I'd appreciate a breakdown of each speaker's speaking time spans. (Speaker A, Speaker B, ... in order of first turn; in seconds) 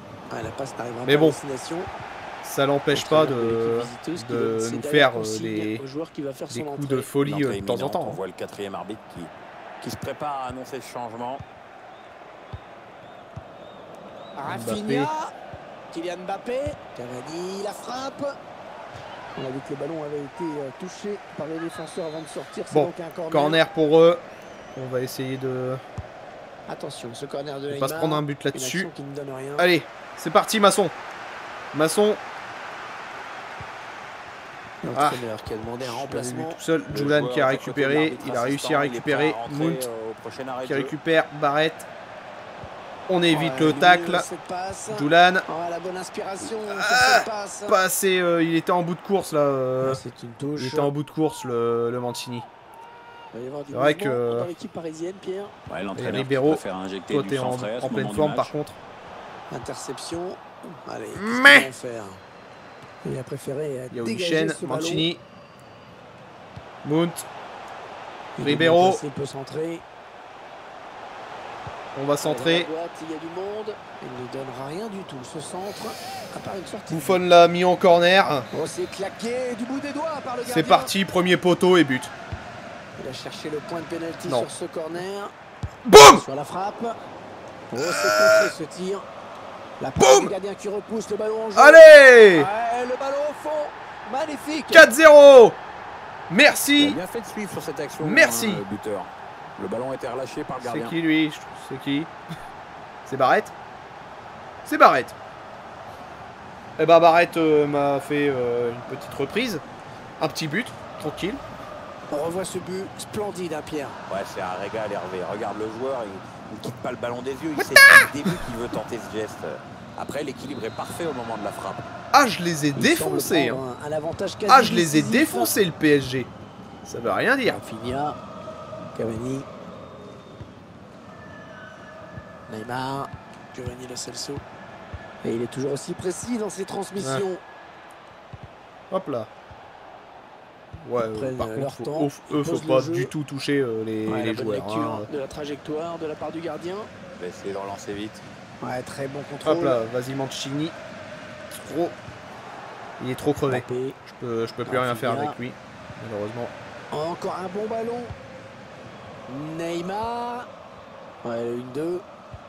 Speaker A: 0.3-1.9, 2.9-7.1, 14.4-15.3, 15.9-18.4, 19.4-23.6, 26.7-29.7, 34.8-36.6, 43.3-47.8, 49.8-50.9, 53.3-55.5, 59.5-62.2, 63.0-65.1, 68.4-69.8, 72.2-77.2, 78.5-80.9, 83.0-85.3, 85.9-87.0, 87.7-89.0, 89.8-94.9, 112.1-114.0, 122.8-125.5, 127.5-128.2, 128.9-129.5, 132.5-134.4, 135.2-137.4, 141.0-143.1, 144.1-146.9, 148.6-149.8, 153.5-154.0, 154.7-155.4, 156.9-158.2, 159.3-160.5, 161.2-162.0
Speaker B: 1.1-1.4, 2.4-5.8, 6.5-8.2, 14.5-15.1, 22.7-25.8, 27.7-28.9, 29.6-30.9, 31.7-32.2, 34.9-35.2, 35.8-39.9, 40.6-41.9, 43.1-44.3, 44.9-45.5, 46.5-50.0, 50.6-52.5, 53.7-54.5, 56.0-58.8, 61.1-61.7, 63.9-65.2, 66.8-67.3, 68.4-69.0, 72.0-72.7, 76.9-78.5, 80.5-82.1, 85.9-86.2, 87.8-88.5, 90.0-90.3, 91.5-92.5, 94.7-95.6, 96.3-97.0, 98.0-98.6, 100.6-102.1, 103.1-103.5, 104.7-105.2, 106.8-109.6, 110.2-111.4, 117.7-118.1, 122.1-123.6, 124.5-126.3, 126.8-127.6, 138.9-139.3, 140.8-145.1, 149.4-150.8, 151.5-152.0, 153.0-156.5
Speaker C: 7.2-11.4, 36.9-40.9, 55.7-58.5, 96.8-100.9, 114.1-121.8, 147.2-148.2